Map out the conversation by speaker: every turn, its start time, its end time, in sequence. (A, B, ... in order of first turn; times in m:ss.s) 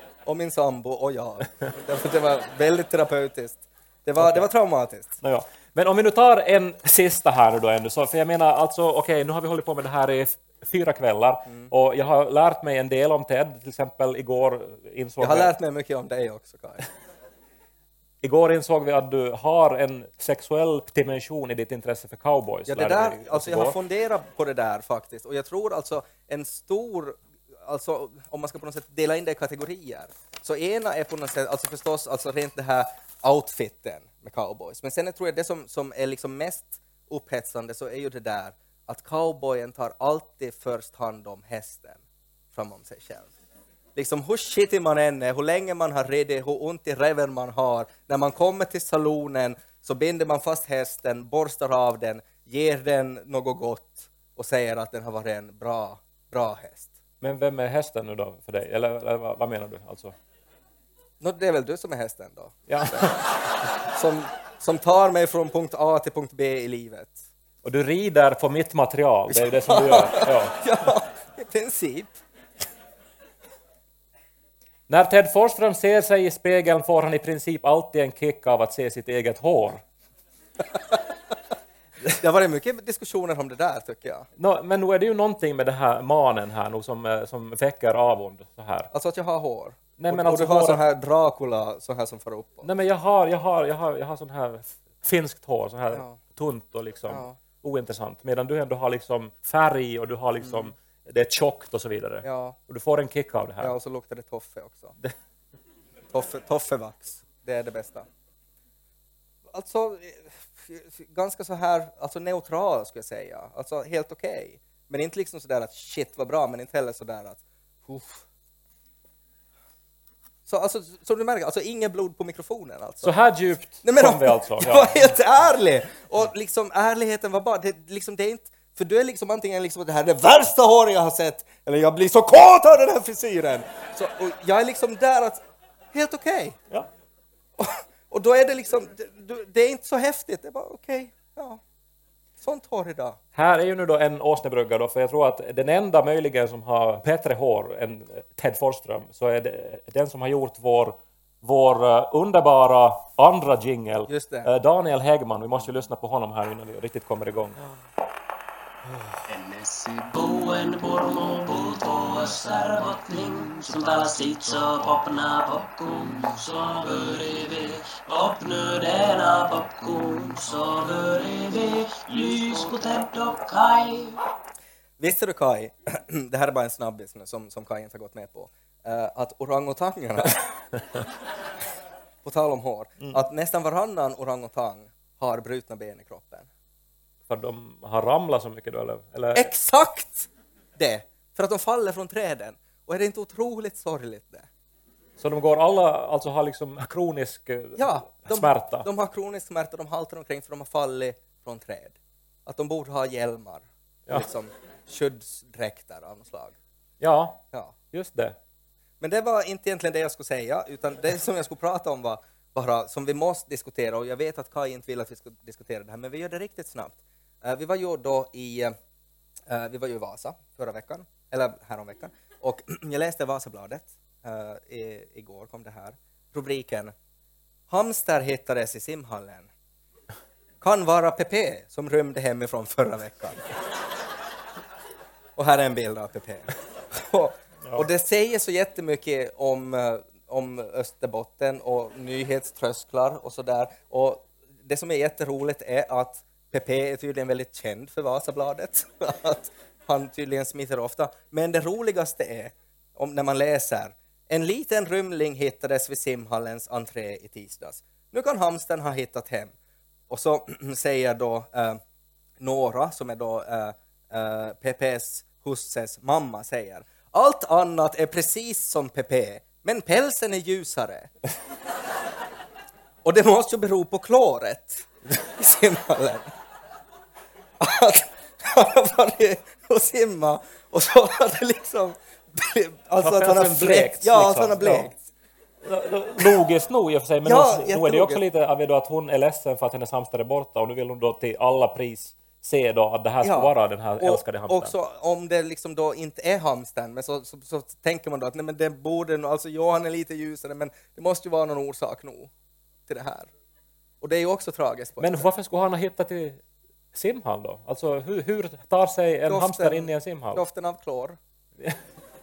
0:00.2-0:05.2 A
0:04.2-0:04.5 B
0:05.2-0:15.5 B
0:15.2-0:16.9 A
0:18.2-0:23.8 B
0:22.7-0:42.0 A
0:42.5-0:43.3 A
0:44.0-0:56.9 A
0:57.2-1:00.1 B
1:01.2-1:03.2 A
1:02.7-1:03.2 B
1:03.9-1:07.2 A
1:07.6-1:10.6 B
1:09.3-1:12.2 A
1:14.9-1:19.8 B
1:22.1-1:24.3 A
1:24.4-1:28.9 B
1:28.9-1:32.7 A
1:30.0-1:30.8 B
1:32.6-1:43.7 B
1:35.9-1:36.2 A
1:37.1-1:37.4 A
1:40.4-1:40.7 A
1:42.2-1:42.6 A
1:43.6-1:44.9 A
1:46.1-1:48.1 A
1:49.5-1:58.3 A
2:00.5-2:03.2 A
2:03.0-2:05.0 B
2:03.8-2:15.4 A
2:15.9-2:16.6 A
2:17.6-2:21.6 A
2:22.4-2:23.2 A
2:23.4-2:37.6 B
2:34.1-2:34.5 A
2:38.9-2:39.2 A
2:39.3-2:54.2 C
2:55.0-3:00.6 A
3:02.2-3:06.5 A
3:07.3-3:09.5 B
3:09.4-3:14.5 A
3:15.2-3:18.9 B
3:17.8-3:26.6 A
3:27.0-3:28.4 B
3:29.0-3:38.8 A
3:39.5-3:46.9 A
3:47.7-3:49.5 A
3:50.6-3:53.4 A
3:55.4-4:19.5 A
4:20.1-4:21.8 A
4:22.4-4:31.1 A
4:33.0-4:36.3 A
4:37.6-4:45.0 A
4:43.0-4:44.9 B
4:45.6-4:54.7 B
4:47.2-4:48.2 A
4:53.2-5:02.3 A
5:02.9-5:03.3 A
5:04.0-5:05.3 A
5:05.0-5:06.4 B
5:06.9-5:10.4 B
5:09.3-5:11.2 A